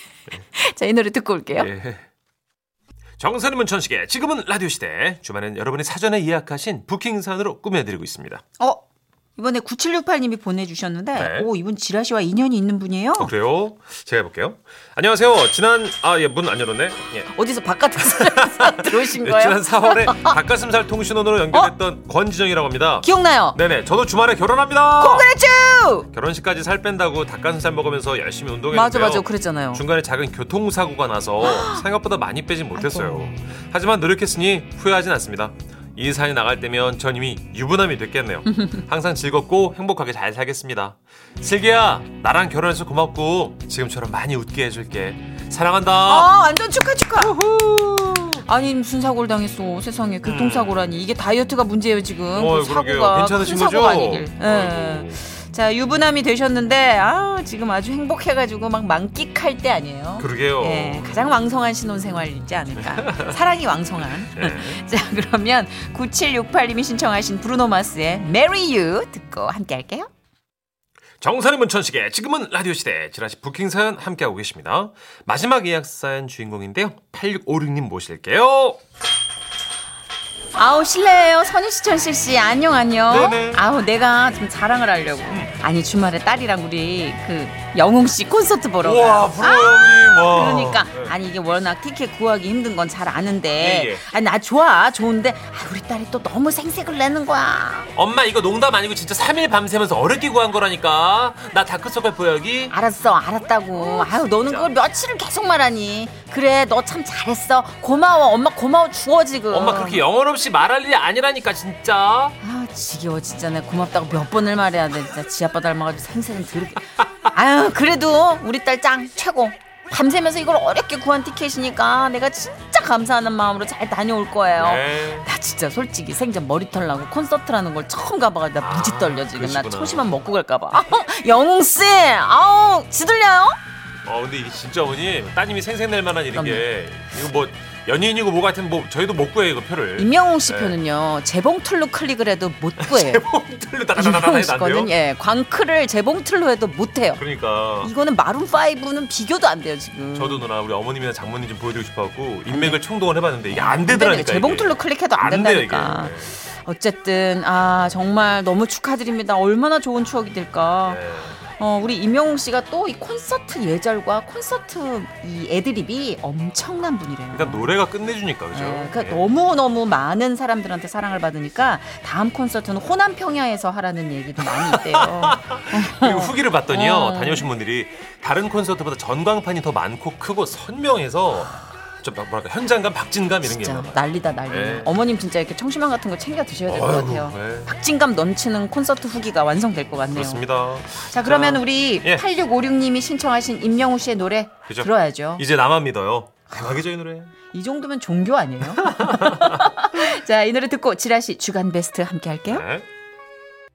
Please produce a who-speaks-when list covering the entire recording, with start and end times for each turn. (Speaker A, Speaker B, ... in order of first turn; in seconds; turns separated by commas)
Speaker A: 0.5-1.7, Speaker B: 1.6-2.0, Speaker B: 3.2-8.4, Speaker A: 9.3-13.3, Speaker B: 11.1-11.5, Speaker B: 13.2-17.3, Speaker A: 17.3-20.4, Speaker B: 18.0-25.3, Speaker A: 23.0-23.6, Speaker A: 25.0-26.1, Speaker B: 26.1-46.3, Speaker A: 28.7-29.8, Speaker A: 31.4-31.8, Speaker A: 32.7-33.3, Speaker A: 46.0-47.4, Speaker B: 47.2-48.4, Speaker A: 48.4-70.1, Speaker B: 50.2-50.9, Speaker B: 52.3-55.2, Speaker B: 60.2-61.3, Speaker B: 62.9-63.3, Speaker B: 64.3-64.8, Speaker B: 71.2-78.8, Speaker A: 80.5-97.9, Speaker B: 83.1-83.7, Speaker B: 85.3-85.6, Speaker B: 88.8-91.1, Speaker B: 93.5-94.0, Speaker B: 97.9-102.7, Speaker A: 102.7-110.0, Speaker B: 103.8-104.7, Speaker B: 109.5-112.3, Speaker A: 112.4-133.6, Speaker B: 124.5-125.3, Speaker B: 128.6-130.1, Speaker B: 134.0-140.8, Speaker A: 136.3-136.7, Speaker A: 140.0-143.2, Speaker B: 142.8-144.9, Speaker A: 143.9-147.2, Speaker B: 147.2-147.9, Speaker A: 147.8-150.4, Speaker B: 150.1-156.4, Speaker A: 152.5-152.8, Speaker A: 153.5-167.7, Speaker B: 160.8-161.4, Speaker B: 167.3-169.2, Speaker A: 168.5-177.5, Speaker B: 174.6-184.9, Speaker A: 183.4-190.4, Speaker B: 186.7-187.7, Speaker B: 190.1-192.2, Speaker A: 191.0-195.4, Speaker B: 194.7-197.3, Speaker A: 197.5-202.7, Speaker B: 198.8-199.7, Speaker B: 202.5-202.9